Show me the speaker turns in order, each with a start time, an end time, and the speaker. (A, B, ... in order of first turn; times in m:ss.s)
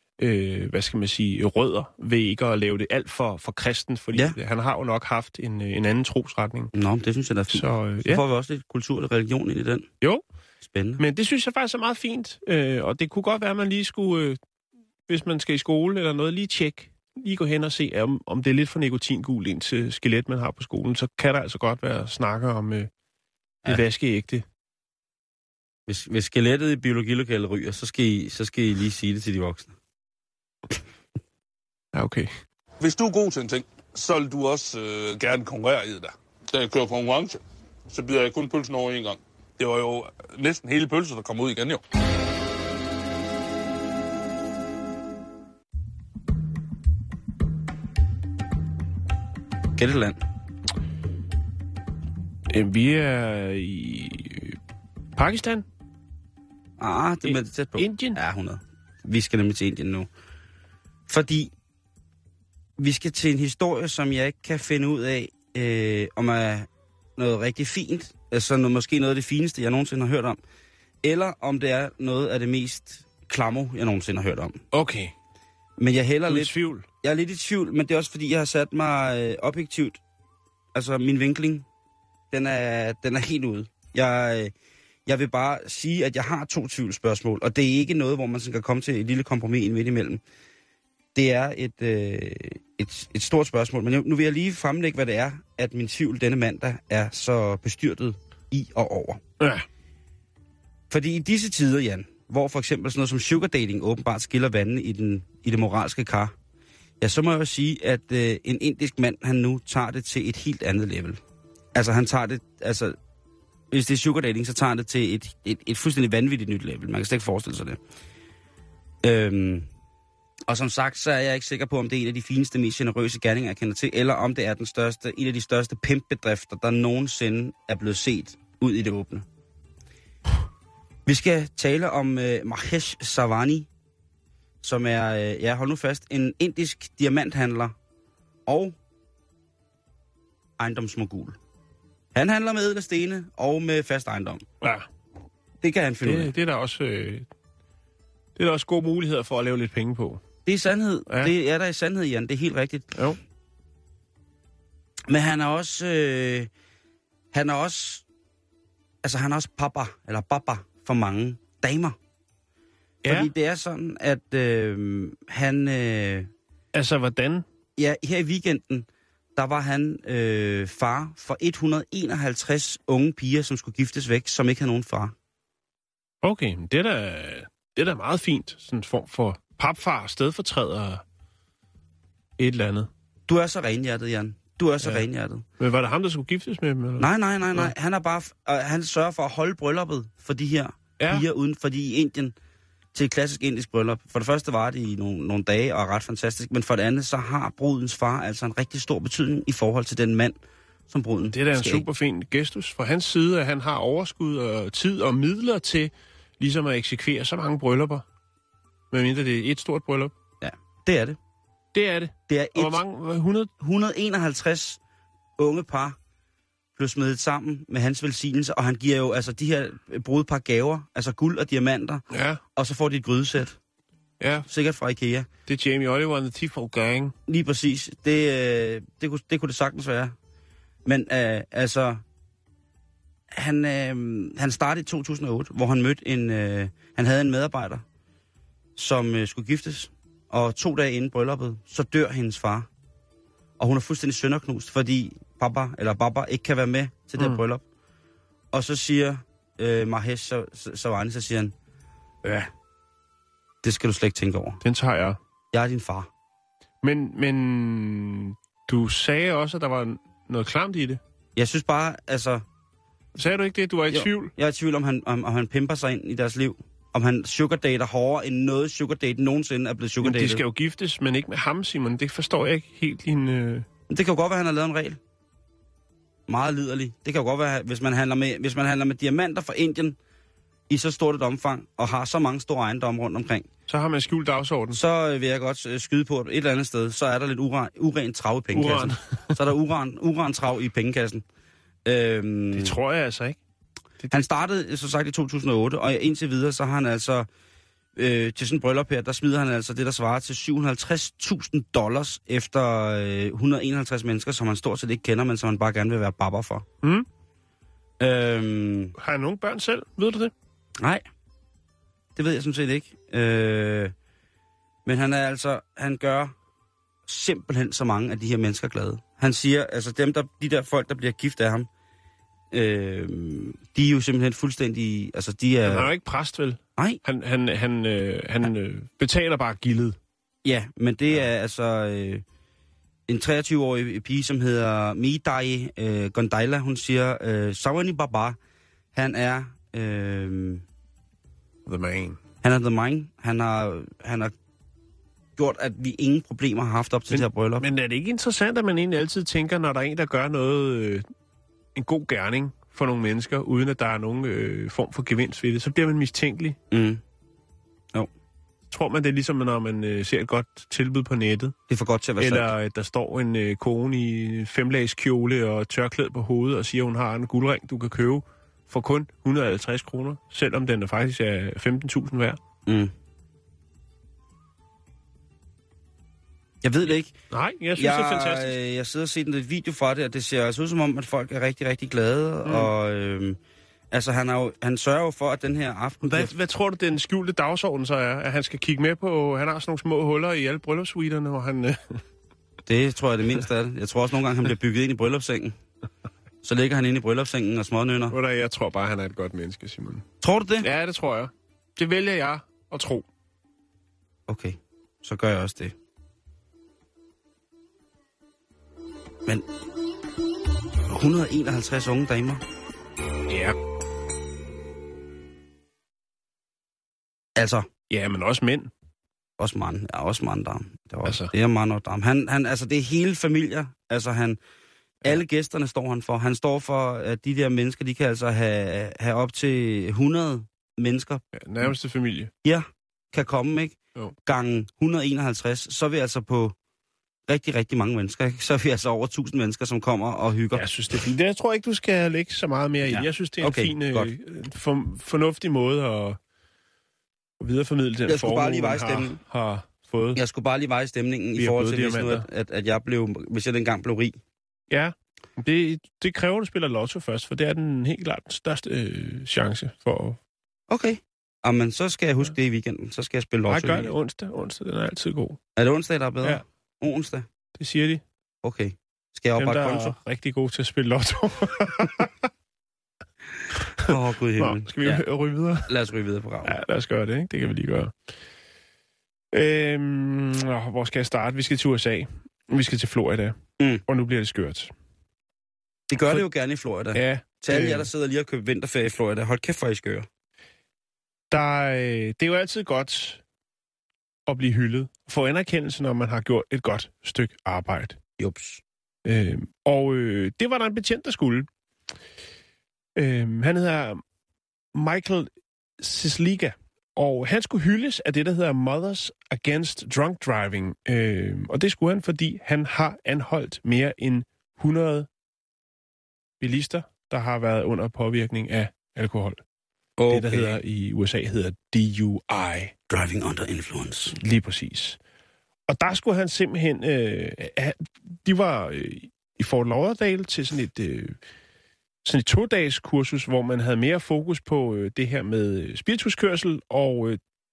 0:00.2-0:06.7 A
0:06.7-0:09.9 B
0:07.5-0:08.2 A
0:10.6-0:11.0 B
0:11.0-0:14.4 A
0:15.1-0:22.9 A
0:23.6-0:24.4 A
0:25.9-0:29.7 B
0:31.9-0:32.3 A
0:32.8-0:41.8 C
0:49.8-0:50.2 B
0:52.5-0:54.6 A
0:55.2-0:55.7 A
0:56.8-1:00.1 B
0:57.2-0:58.2 A
1:01.1-1:01.5 B
1:02.8-1:10.4 B
1:11.0-1:14.6 B
1:14.7-1:15.1 A
1:15.8-1:20.0 B
1:16.3-1:16.9 A
1:20.7-1:21.6 B
1:22.3-1:24.5 B
1:25.1-1:30.2 B
1:31.1-1:39.2 B
1:39.4-1:39.6 A
1:40.9-1:46.3 B
1:47.0-1:51.2 B
1:51.7-1:53.0 B
1:53.7-1:57.8 B
1:59.0-1:59.7 B
2:00.5-2:09.2 B
2:11.0-2:13.7 B
2:14.6-2:17.7 B
2:18.5-2:18.8 B
2:20.6-2:21.4 B
2:22.1-2:24.4 B
2:24.6-2:24.9 A
2:25.6-2:26.3 B
2:26.0-2:27.3 A
2:28.4-2:30.2 A
2:30.4-2:32.9 B
2:35.1-2:36.5 B
2:37.3-2:38.0 B
2:39.0-2:42.0 B
2:43.0-2:43.3 A
2:43.1-2:46.3 B
2:46.7-2:47.4 A
2:47.8-2:55.1 B
2:56.2-3:01.0 A
3:02.4-3:02.9 A
3:03.3-3:05.4 B
3:05.6-3:07.7 A
3:07.0-3:12.3 B
3:11.0-3:11.2 A
3:12.9-3:20.4 B
3:20.9-3:21.9 B
3:21.3-3:28.0 A
3:28.9-3:30.1 A
3:30.4-3:31.2 B
3:31.7-3:33.5 A
3:32.3-3:32.8 B
3:33.6-3:34.8 B
3:35.4-3:36.0 B
3:36.8-3:42.0 B
3:42.1-3:42.4 A
3:42.6-3:43.6 B
3:44.2-3:44.5 A
3:44.5-3:45.3 B
3:45.5-3:47.1 A
3:47.3-3:50.1 B
3:50.8-3:52.0 B
3:53.3-3:57.8 B
3:58.8-4:02.7 B
4:03.6-4:07.6 B
4:08.5-4:11.5 B
4:12.2-4:12.5 B
4:13.6-4:14.6 B
4:14.6-4:15.2 A
4:15.5-4:16.1 B
4:16.8-4:21.0 A
4:21.4-4:22.4 B
4:23.1-4:24.3 A
4:23.9-4:30.4 B
4:30.0-4:33.6 A
4:33.9-4:35.0 B
4:36.3-4:40.0 B
4:40.7-4:43.5 B
4:43.7-4:44.8 A
4:44.7-4:51.2 B
4:48.5-4:49.3 A
4:51.8-4:52.7 B
4:52.5-4:53.4 A
4:54.1-4:57.3 B
4:58.0-5:06.6 B
5:06.8-5:07.1 A
5:08.0-5:08.9 B
5:08.9-5:10.3 A
5:12.2-5:13.9 B
5:14.8-5:16.3 B
5:17.1-5:21.7 B
5:22.5-5:25.9 B
5:25.6-5:30.0 A
5:30.4-5:32.2 B
5:33.1-5:38.4 B
5:38.9-5:40.6 B
5:41.6-5:42.2 A
5:42.4-5:44.3 B
5:45.4-5:47.6 B
5:47.1-5:51.0 A
5:51.7-5:56.6 A
5:56.7-5:57.0 B
5:58.7-6:01.5 A
6:01.7-6:02.5 B
6:02.2-6:12.4 A
6:12.6-6:12.9 B
6:16.6-6:17.1 B
6:17.3-6:18.6 A
6:17.8-6:23.4 B
6:22.4-6:22.7 A
6:23.9-6:26.3 B
6:26.0-6:32.0 A
6:32.6-6:35.6 B
6:36.4-6:38.1 B
6:38.1-6:40.0 A
6:40.2-6:40.7 B
6:40.6-6:43.1 A
6:44.3-6:45.7 B
6:50.9-6:52.4 B
6:53.3-6:53.6 A
6:57.4-6:57.7 B
6:57.9-6:58.7 A
6:59.4-7:04.4 B
7:01.0-7:01.3 A
7:05.0-7:11.2 B
7:11.3-7:12.3 A
7:12.4-7:16.5 B
7:17.3-7:21.1 B
7:20.5-7:26.2 A
7:22.9-7:24.1 B
7:27.4-7:30.2 A
7:28.1-7:29.2 B
7:30.1-7:34.2 B
7:31.4-7:32.2 A
7:34.7-7:40.2 A
7:40.7-7:43.9 B
7:43.5-7:45.4 A
7:45.6-7:47.2 B
7:47.6-7:48.0 A
7:48.4-7:50.0 B
7:49.3-7:52.3 A
7:53.8-7:55.0 B
7:53.8-7:55.7 A
7:55.6-7:56.5 B
7:56.4-7:57.9 A
7:59.3-8:04.7 A
8:03.6-8:03.8 B
8:05.9-8:10.1 B
8:06.9-8:07.9 A
8:11.3-8:13.2 A
8:14.3-8:18.0 A
8:18.2-8:18.6 B
8:19.0-8:21.5 A
8:23.0-8:24.0 A
8:24.7-8:35.1 A
8:36.4-8:39.4 A
8:40.0-8:40.6 B
8:40.1-8:42.7 A
8:42.9-8:44.2 B
8:44.2-8:45.0 A
8:45.7-8:51.2 A
8:52.0-8:57.2 A